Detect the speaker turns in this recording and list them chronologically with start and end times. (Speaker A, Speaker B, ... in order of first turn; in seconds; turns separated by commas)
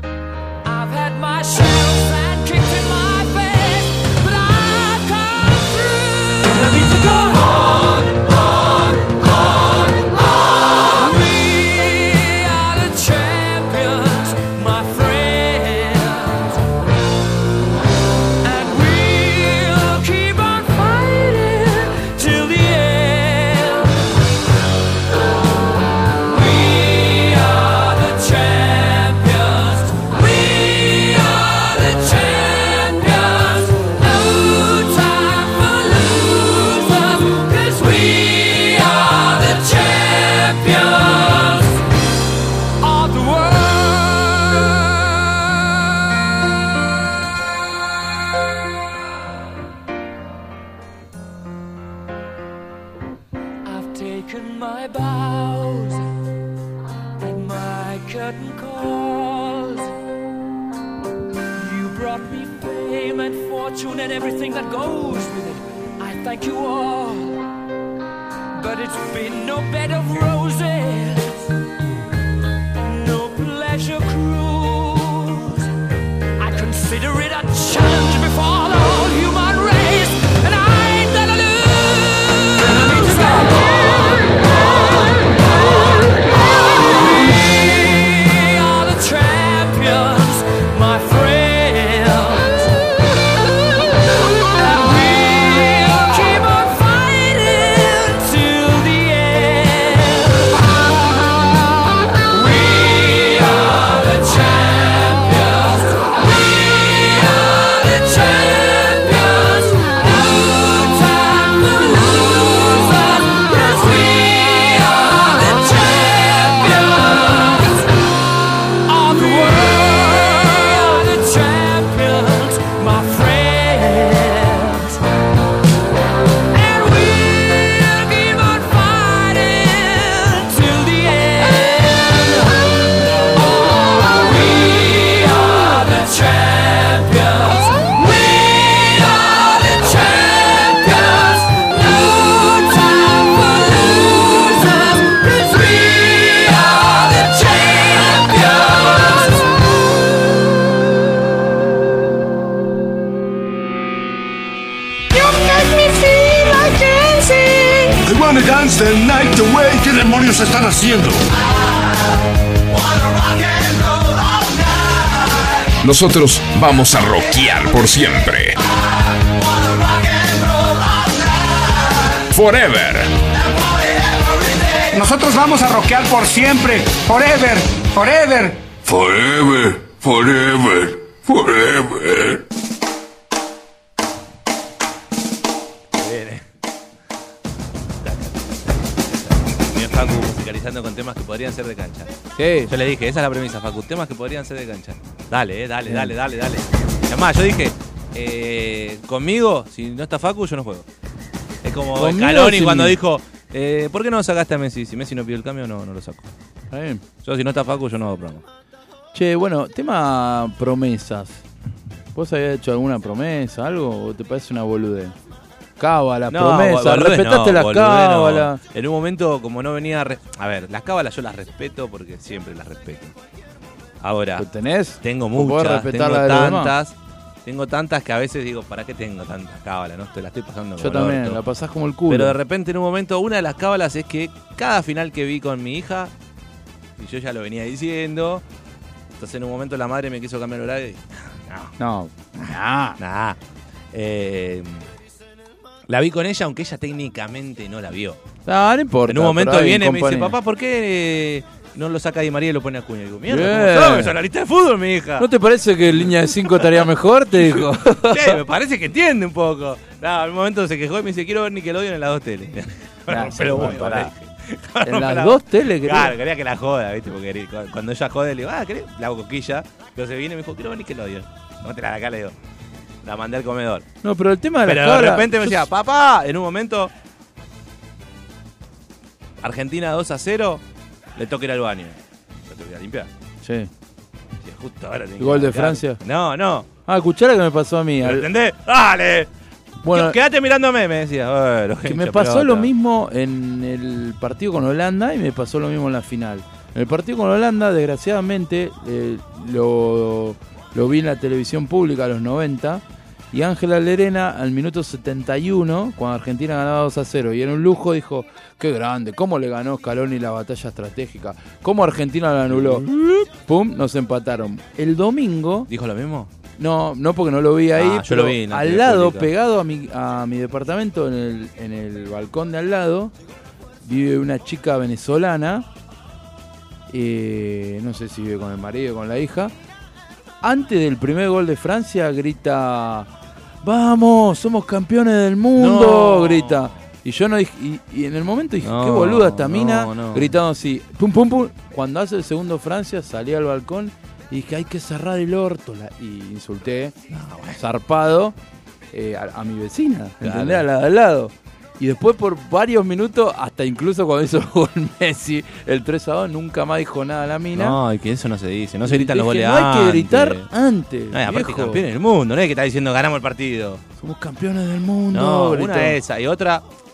Speaker A: 0.6-16.6, Speaker A: 18.4-24.0, Speaker A: 26.1-41.8, Speaker A: 42.8-45.8, Speaker A: 53.6-56.1, Speaker A: 57.2-59.9, Speaker A: 61.5-67.5, Speaker A: 68.5-71.5, Speaker A: 72.8-75.7, Speaker A: 76.4-92.8, Speaker A: 94.4-101.5, Speaker A: 102.1-117.9, Speaker A: 118.8-125.0, Speaker A: 126.5-149.6, Speaker B: 155.1-158.0, Speaker C: 158.1-161.2, Speaker D: 162.8-165.6, Speaker E: 165.8-168.6, Speaker D: 169.1-172.2, Speaker E: 172.3-173.2, Speaker D: 173.5-178.6, Speaker C: 178.7-182.4, Speaker F: 185.9-186.4, Speaker F: 188.0-192.1, Speaker G: 192.3-192.7, Speaker F: 192.7-200.8, Speaker G: 195.9-196.1, Speaker F: 201.6-206.3, Speaker G: 201.9-202.9, Speaker G: 206.7-207.0, Speaker F: 207.2-208.4, Speaker G: 209.1-211.4, Speaker G: 212.1-215.1, Speaker G: 215.8-218.6, Speaker F: 216.3-223.1, Speaker F: 224.0-224.4, Speaker G: 224.4-226.7, Speaker F: 225.0-226.9, Speaker F: 227.4-231.4, Speaker G: 230.8-232.3, Speaker F: 232.1-236.1, Speaker F: 237.0-238.4, Speaker F: 239.2-241.7, Speaker G: 241.8-243.0, Speaker F: 242.4-243.4, Speaker F: 243.9-244.8, Speaker F: 245.9-248.2, Speaker G: 248.4-250.3, Speaker F: 249.1-255.3, Speaker G: 253.3-254.1, Speaker G: 255.2-258.4, Speaker F: 256.0-272.3, Speaker G: 263.1-264.1, Speaker G: 264.8-266.1, Speaker F: 273.0-273.9, Speaker G: 274.0-275.6, Speaker F: 274.6-276.9, Speaker F: 279.4-280.6, Speaker F: 281.1-282.0, Speaker F: 282.5-283.1, Speaker G: 283.4-283.7, Speaker F: 284.4-286.7, Speaker G: 285.2-286.0, Speaker G: 286.9-288.3, Speaker F: 288.0-289.3, Speaker G: 289.8-290.2, Speaker F: 289.9-292.7, Speaker G: 291.9-315.7, Speaker F: 312.5-312.8, Speaker F: 315.7-316.3, Speaker G: 316.6-323.1, Speaker F: 317.7-319.3, Speaker G: 323.8-325.6, Speaker G: 326.9-329.5, Speaker G: 330.4-333.1, Speaker G: 333.6-346.9, Speaker F: 335.6-336.8, Speaker F: 338.6-340.3, Speaker F: 347.1-347.6, Speaker G: 347.5-348.3, Speaker G: 348.9-357.8, Speaker F: 350.2-350.6, Speaker F: 357.5-360.5, Speaker G: 358.8-361.8, Speaker F: 361.1-363.8, Speaker G: 364.0-366.0, Speaker F: 365.1-366.6